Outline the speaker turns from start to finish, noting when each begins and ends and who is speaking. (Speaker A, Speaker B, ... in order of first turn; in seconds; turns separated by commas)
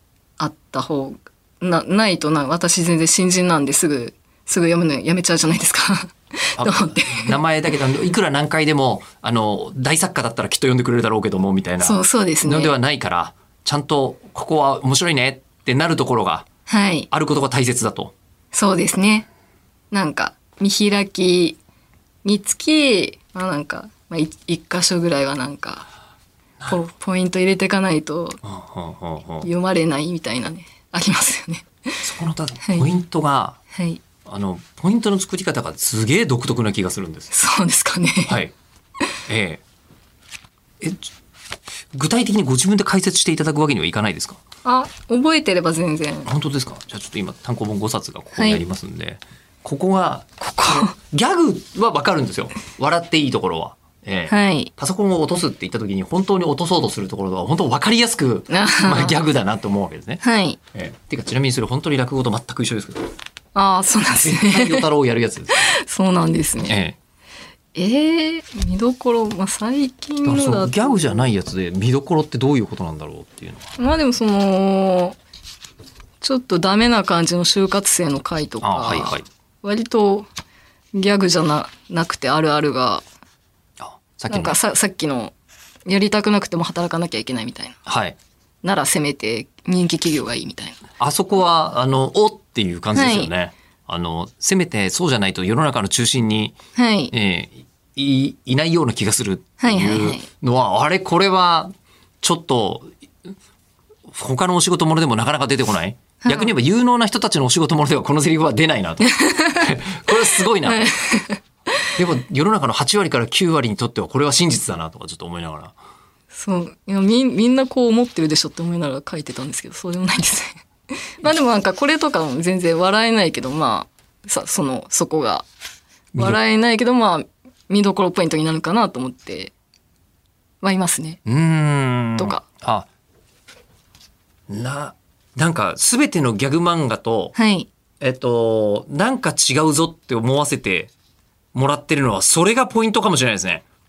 Speaker A: 0.4-7.4, Speaker B: 6.6-16.5, Speaker A: 11.8-12.8, Speaker A: 16.7-17.1, Speaker B: 17.1-18.1, Speaker A: 18.5-19.3, Speaker A: 19.9-21.6, Speaker A: 22.2-25.9, Speaker A: 26.7-28.4, Speaker B: 28.4-29.5, Speaker A: 29.4-32.0, Speaker B: 32.0-33.6, Speaker A: 33.7-34.0, Speaker B: 34.2-37.3, Speaker A: 37.3-38.4, Speaker B: 38.3-38.5, Speaker B: 39.3-39.6, Speaker B: 40.8-41.1, Speaker B: 41.9-44.4, Speaker A: 44.6-46.3, Speaker B: 46.3-60.2, Speaker A: 48.4-48.6, Speaker A: 50.4-51.0, Speaker A: 54.3-54.7, Speaker A: 58.5-59.2, Speaker A: 60.2-60.6, Speaker B: 60.7-63.1, Speaker A: 63.5-64.9, Speaker B: 64.2-65.7, Speaker A: 65.5-66.8, Speaker B: 66.7-67.0, Speaker A: 67.8-71.3, Speaker B: 70.2-73.7, Speaker A: 73.8-75.2, Speaker A: 76.2-80.3, Speaker B: 78.6-79.3, Speaker A: 80.9-83.0, Speaker B: 83.8-84.6, Speaker A: 84.3-85.3, Speaker A: 85.9-87.8, Speaker B: 87.9-88.2, Speaker A: 88.6-90.8, Speaker B: 91.0-96.6, Speaker A: 92.9-93.3, Speaker A: 96.8-97.1, Speaker B: 97.1-103.3, Speaker A: 99.6-100.3, Speaker B: 104.1-110.9, Speaker A: 106.2-106.5, Speaker A: 109.0-109.8, Speaker A: 110.6-111.9, Speaker B: 112.0-115.7, Speaker A: 116.3-125.5, Speaker B: 126.1-126.4, Speaker A: 126.2-129.5, Speaker A: 130.6-131.2, Speaker B: 131.3-132.9, Speaker A: 132.2-132.4, Speaker B: 134.5-137.3, Speaker A: 137.3-137.7, Speaker B: 138.0-140.9, Speaker B: 141.5-143.6